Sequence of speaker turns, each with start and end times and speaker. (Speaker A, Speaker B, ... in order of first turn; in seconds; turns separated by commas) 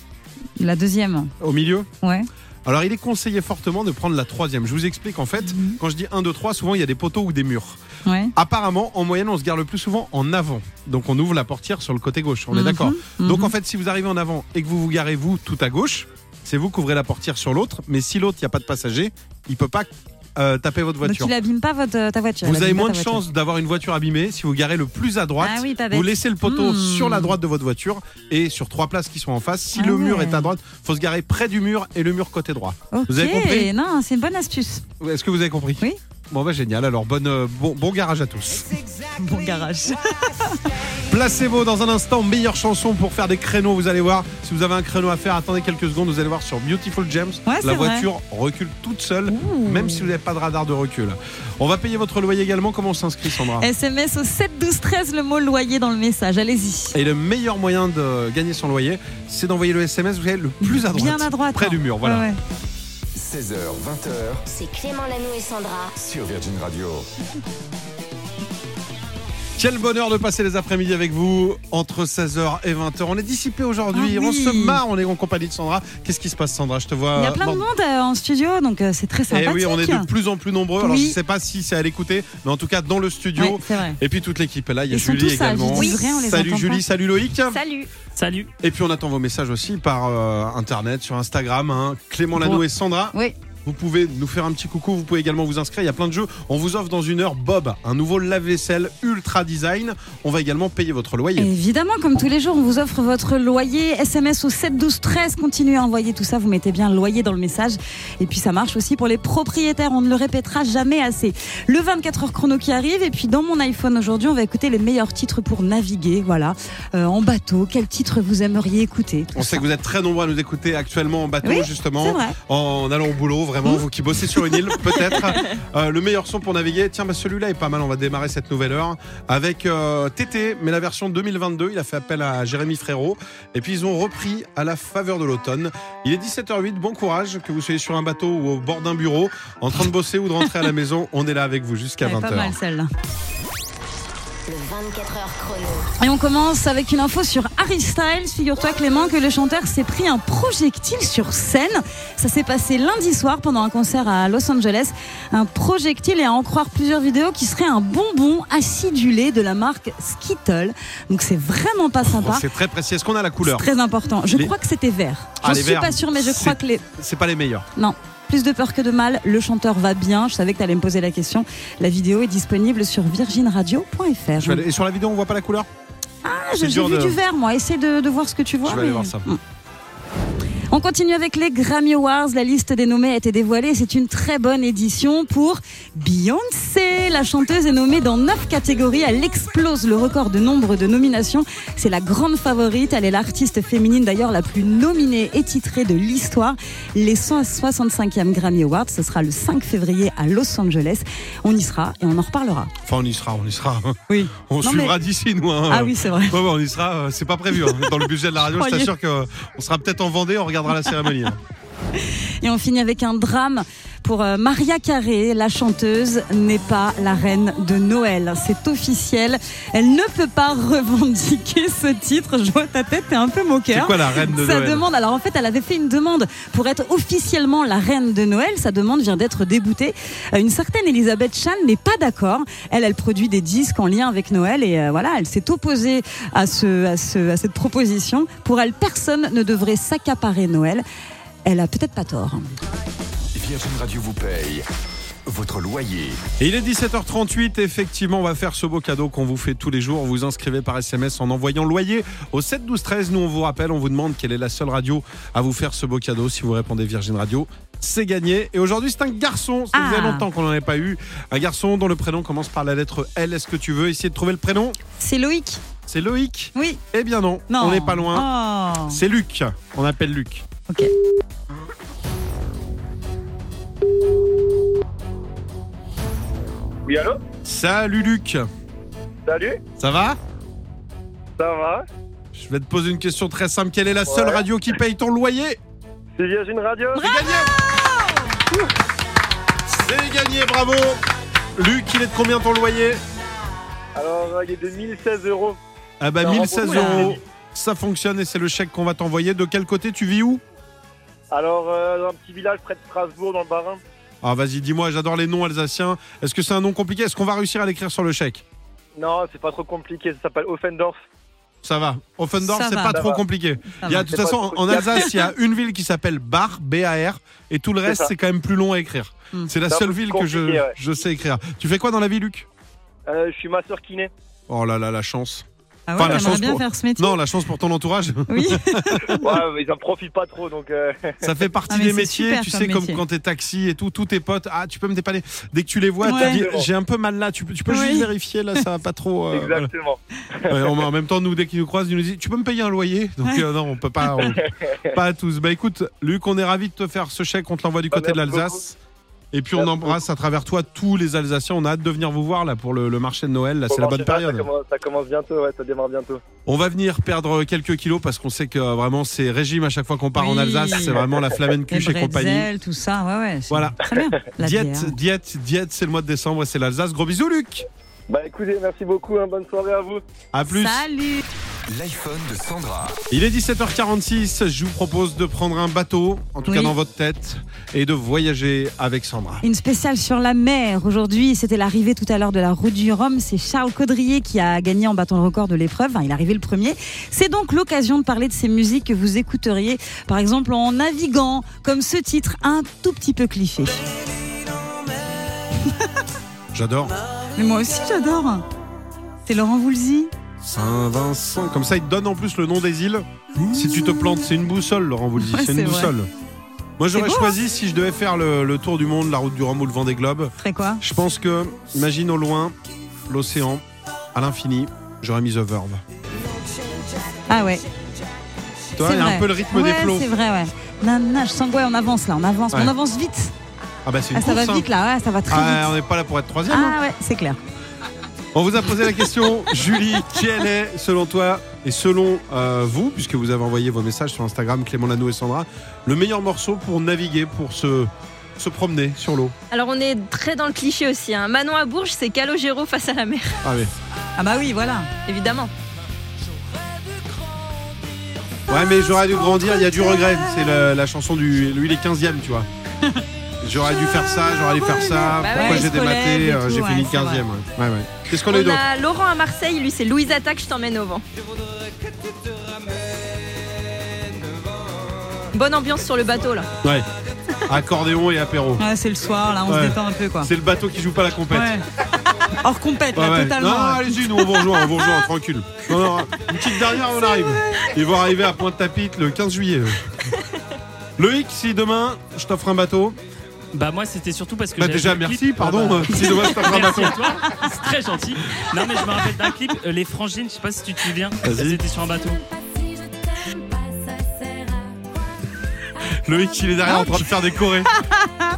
Speaker A: 0.6-1.3, Speaker B: 1.4-1.9, Speaker A: 2.0-2.3, Speaker B: 2.7-7.8, Speaker A: 5.5-5.8, Speaker B: 8.4-21.4, Speaker A: 12.5-13.5, Speaker A: 21.0-23.2, Speaker B: 22.4-33.7, Speaker A: 25.4-27.3, Speaker A: 29.8-30.5, Speaker A: 32.9-34.8, Speaker B: 35.0-38.7, Speaker A: 39.2-40.6, Speaker B: 41.0-53.7, Speaker A: 47.5-48.1, Speaker A: 49.3-50.1, Speaker A: 53.6-56.9, Speaker B: 56.9-62.3, Speaker A: 60.6-62.4, Speaker C: 63.2-64.4, Speaker D: 64.5-65.9, Speaker C: 66.0-67.0, Speaker B: 69.6-77.7, Speaker A: 73.9-74.8, Speaker A: 77.2-80.1, Speaker B: 79.3-87.6, Speaker A: 80.8-81.2, Speaker A: 83.4-84.0, Speaker A: 84.9-86.8, Speaker E: 85.7-86.1, Speaker E: 87.5-87.9, Speaker F: 88.2-88.5, Speaker B: 88.6-93.1, Speaker A: 92.4-92.6, Speaker B: 93.7-101.5, Speaker A: 101.4-119.6, Speaker B: 119.3-142.6, Speaker A: 121.4-122.3, Speaker A: 142.1-142.9, Speaker D: 144.5-145.9, Speaker A: 146.0-162.4, Speaker B: 162.0-163.7, Speaker A: 163.4-166.8, Speaker B: 164.3-164.6, Speaker B: 165.4-167.7, Speaker A: 167.8-174.6, Speaker B: 174.4-175.7, Speaker A: 176.2-179.4, Speaker B: 176.5-177.2, Speaker B: 178.6-179.3, Speaker A: 180.7-202.7, Speaker B: 202.8-211.4, Speaker A: 204.1-204.9, Speaker A: 205.7-206.4, Speaker A: 208.6-208.9, Speaker A: 212.4-240.8, Speaker B: 223.7-224.9, Speaker A: 241.4-242.4, Speaker A: 243.4-244.5, Speaker C: 243.4-244.6, Speaker A: 245.3-246.1, Speaker C: 245.7-246.2, Speaker B: 246.4-264.8, Speaker A: 259.7-260.2, Speaker A: 265.0-265.6, Speaker B: 265.9-268.3, Speaker A: 267.5-268.9, Speaker B: 268.9-270.4, Speaker G: 276.9-277.2, Speaker B: 277.4-278.4, Speaker G: 279.3-279.6, Speaker B: 279.8-280.2, Speaker G: 281.4-281.8, Speaker B: 282.3-285.6, Speaker G: 284.1-284.4, Speaker G: 286.2-287.0, Speaker A: 286.9-288.1, Speaker B: 287.0-287.5, Speaker B: 289.7-291.0, Speaker B: 291.6-293.0, Speaker G: 294.0-295.6, Speaker B: 296.0-300.4, Speaker G: 296.2-297.2, Speaker E: 296.7-296.9, Speaker G: 301.3-303.8, Speaker B: 304.2-308.4, Speaker G: 309.0-311.0, Speaker B: 311.6-322.5, Speaker A: 312.4-313.0, Speaker G: 312.9-313.2, Speaker G: 314.0-315.0, Speaker G: 319.7-320.7, Speaker G: 323.1-324.1, Speaker B: 324.5-329.0, Speaker A: 325.9-327.2, Speaker A: 328.3-329.4, Speaker G: 329.2-330.9, Speaker B: 331.2-339.7, Speaker A: 331.7-333.0, Speaker A: 336.1-336.4, Speaker G: 336.2-336.6, Speaker A: 337.7-338.1, Speaker G: 339.3-340.4, Speaker B: 340.5-344.4, Speaker B: 344.9-348.8, Speaker G: 347.9-348.6, Speaker B: 349.3-354.5, Speaker G: 349.6-350.0, Speaker G: 353.7-355.3, Speaker G: 355.8-356.2, Speaker B: 356.5-362.5, Speaker A: 360.2-361.0, Speaker A: 361.7-364.9, Speaker B: 363.5-363.8, Speaker B: 364.4-367.6, Speaker G: 368.1-370.0, Speaker B: 370.3-370.9, Speaker A: 370.5-371.2, Speaker A: 371.8-372.9, Speaker C: 372.4-372.9, Speaker B: 373.1-379.4, Speaker A: 376.5-376.7, Speaker A: 379.4-393.7, Speaker B: 396.5-396.9, Speaker A: 397.4-398.4, Speaker A: 399.3-400.1, Speaker B: 400.4-406.1, Speaker A: 403.4-404.2, Speaker A: 405.2-405.9, Speaker B: 406.8-412.5, Speaker A: 406.9-407.3, Speaker A: 410.4-410.8, Speaker B: 413.1-413.6, Speaker B: 414.1-415.8, Speaker A: 417.3-417.6, Speaker B: 418.8-420.1, Speaker A: 418.8-423.3, Speaker B: 423.9-424.7, Speaker A: 424.1-425.7, Speaker B: 425.3-426.8, Speaker A: 426.5-427.4, Speaker B: 428.3-439.4, Speaker E: 439.5-443.4, Speaker B: 443.4-443.7, Speaker A: 444.2-444.9, Speaker E: 445.1-445.5, Speaker B: 448.5-452.5, Speaker B: 453.4-458.6, Speaker A: 453.9-457.2, Speaker E: 455.1-455.9, Speaker E: 458.1-461.0, Speaker E: 465.3-466.5, Speaker B: 467.5-468.6, Speaker A: 468.6-470.3, Speaker B: 469.5-471.6, Speaker A: 471.3-471.6, Speaker A: 472.4-474.1, Speaker B: 472.9-479.8, Speaker B: 481.0-483.0, Speaker F: 483.5-492.2, Speaker B: 484.6-487.1, Speaker B: 488.5-488.9, Speaker B: 491.2-491.6, Speaker B: 496.0-497.7, Speaker A: 496.6-497.0